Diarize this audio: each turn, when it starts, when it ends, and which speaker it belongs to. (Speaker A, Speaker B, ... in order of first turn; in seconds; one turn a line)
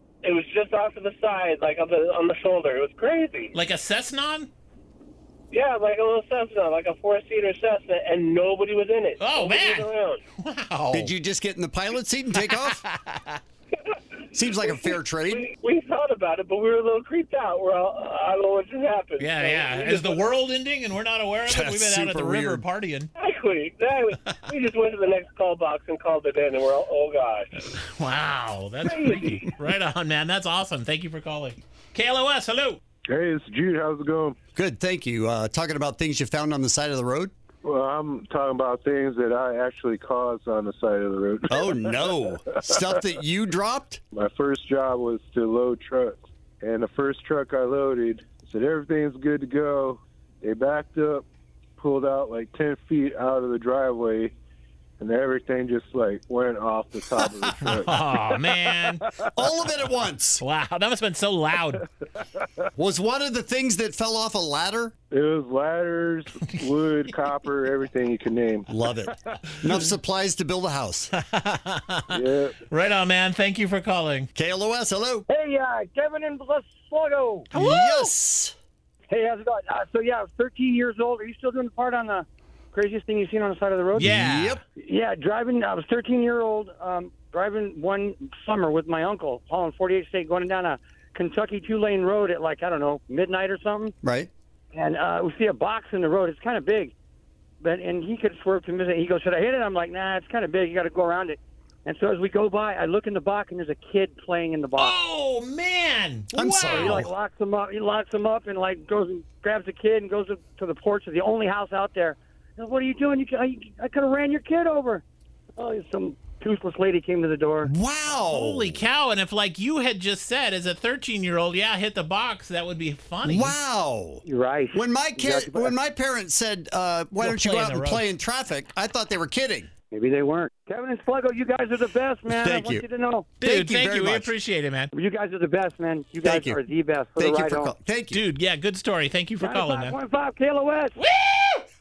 Speaker A: 0.2-3.5
Speaker B: 3.5-4.5
Speaker A: 5.5-10.2
Speaker B: 9.2-11.1
Speaker C: 10.9-12.8
Speaker B: 12.4-13.4
Speaker C: 14.3-15.5
Speaker A: 14.6-20.2
Speaker B: 19.2-23.1
Speaker C: 21.5-22.6
Speaker A: 23.2-27.6
Speaker B: 27.7-32.8
Speaker A: 28.8-29.4
Speaker D: 33.1-34.4
Speaker C: 34.5-37.3
Speaker D: 37.6-42.1
Speaker C: 41.5-44.0
Speaker D: 44.1-51.2
Speaker D: 51.8-54.3
Speaker D: 55.0-58.5
Speaker B: 57.5-59.0
Speaker C: 59.3-60.4
Speaker B: 60.4-61.8
Speaker D: 62.2-62.5
Speaker C: 62.8-64.9
Speaker D: 65.1-68.7
Speaker B: 66.4-67.1
Speaker C: 68.7-71.1
Speaker B: 71.1-74.3
Speaker D: 72.1-72.6
Speaker C: 74.3-75.2
Speaker E: 75.3-77.5
Speaker B: 77.5-78.1
Speaker C: 77.5-78.5
Speaker E: 79.1-84.1
Speaker B: 84.0-84.6
Speaker C: 84.0-84.6
Speaker E: 84.8-93.9
Speaker C: 94.0-94.3
Speaker E: 94.7-96.9
Speaker E: 97.6-105.0
Speaker B: 104.8-107.0
Speaker C: 106.3-107.1
Speaker E: 106.6-115.0
Speaker E: 115.5-117.7
Speaker C: 117.6-118.8
Speaker B: 118.2-123.5
Speaker C: 123.2-129.7
Speaker E: 124.2-125.7
Speaker B: 127.2-128.1
Speaker E: 129.9-133.3
Speaker C: 132.3-132.8
Speaker B: 133.4-134.9
Speaker C: 133.4-134.3
Speaker E: 134.9-137.8
Speaker C: 136.2-136.6
Speaker C: 137.2-138.2
Speaker B: 138.1-139.9
Speaker E: 139.4-141.0
Speaker B: 141.0-141.7